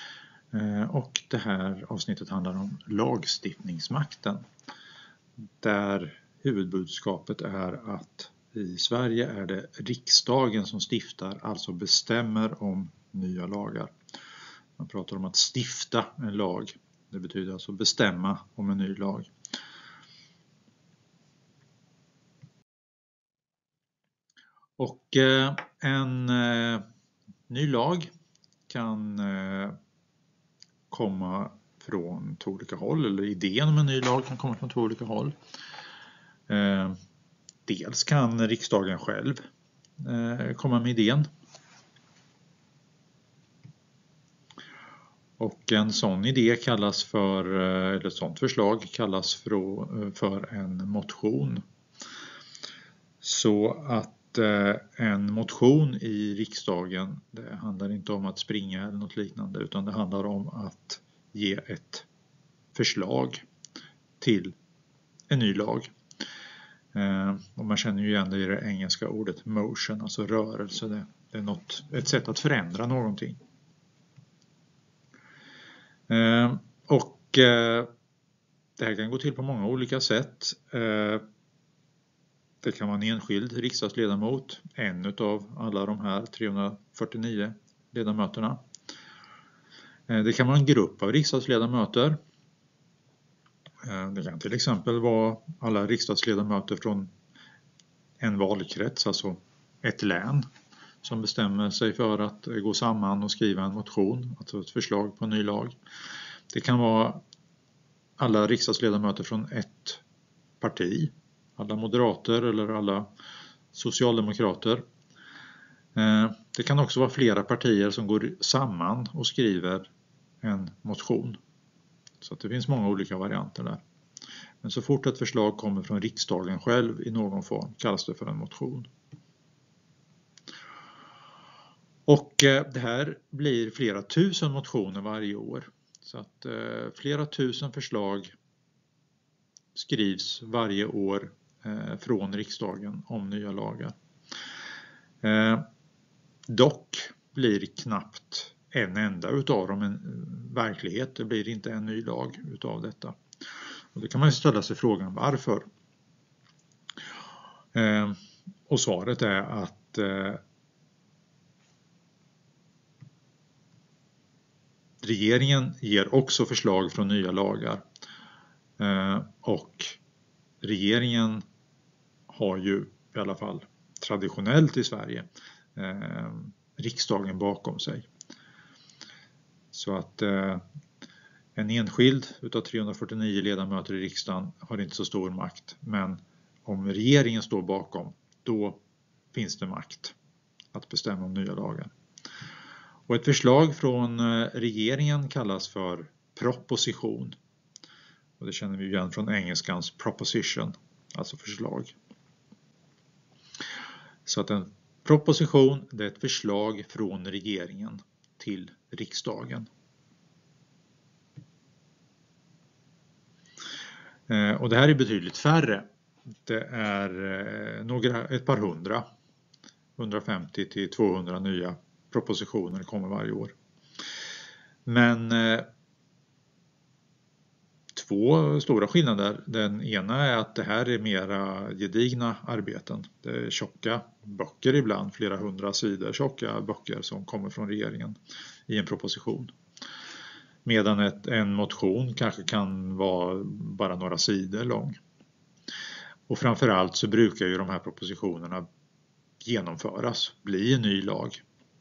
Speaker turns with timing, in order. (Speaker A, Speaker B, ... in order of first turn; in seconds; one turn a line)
Speaker A: 0.5-4.5
Speaker A: 5.6-13.9
Speaker A: 14.8-19.3
Speaker A: 24.8-26.8
Speaker A: 27.5-28.1
Speaker A: 28.7-29.8
Speaker A: 30.9-35.4
Speaker A: 36.5-37.0
Speaker A: 37.6-39.4
Speaker A: 40.0-41.3
Speaker A: 45.4-51.6
Speaker A: 53.2-62.1
Speaker A: 62.7-63.4
Speaker A: 64.2-64.5
Speaker A: 65.3-65.9
Speaker A: 66.9-73.4
Speaker A: 76.1-77.9
Speaker A: 78.8-81.2
Speaker A: 82.6-88.6
Speaker A: 90.1-92.2
Speaker A: 93.8-97.1
Speaker A: 98.2-100.5
Speaker A: 101.0-105.8
Speaker A: 106.5-107.2
Speaker A: 108.2-110.0
Speaker A: 110.6-113.1
Speaker A: 113.7-114.8
Speaker A: 115.9-119.9
Speaker A: 120.4-121.4
Speaker A: 122.2-123.8
Speaker A: 124.6-128.9
Speaker A: 132.1-138.3
Speaker A: 139.7-143.9
Speaker A: 145.2-145.7
Speaker A: 146.5-153.2
Speaker A: 153.9-155.7
Speaker A: 157.7-160.4
Speaker A: 165.0-167.8
Speaker A: 168.8-170.0
Speaker A: 170.6-171.4
Speaker A: 172.3-178.1
Speaker A: 179.7-180.6
Speaker A: 181.6-188.8
Speaker A: 189.3-190.2
Speaker A: 190.7-191.9
Speaker A: 193.1-197.4
Speaker A: 198.4-201.9
Speaker A: 204.2-209.7
Speaker A: 214.3-215.9
Speaker A: 216.4-219.1
Speaker A: 219.9-223.5
Speaker A: 224.8-225.7
Speaker A: 227.9-238.2
Speaker A: 238.7-239.5
Speaker A: 240.6-245.0
Speaker A: 246.3-248.7
Speaker A: 249.4-251.4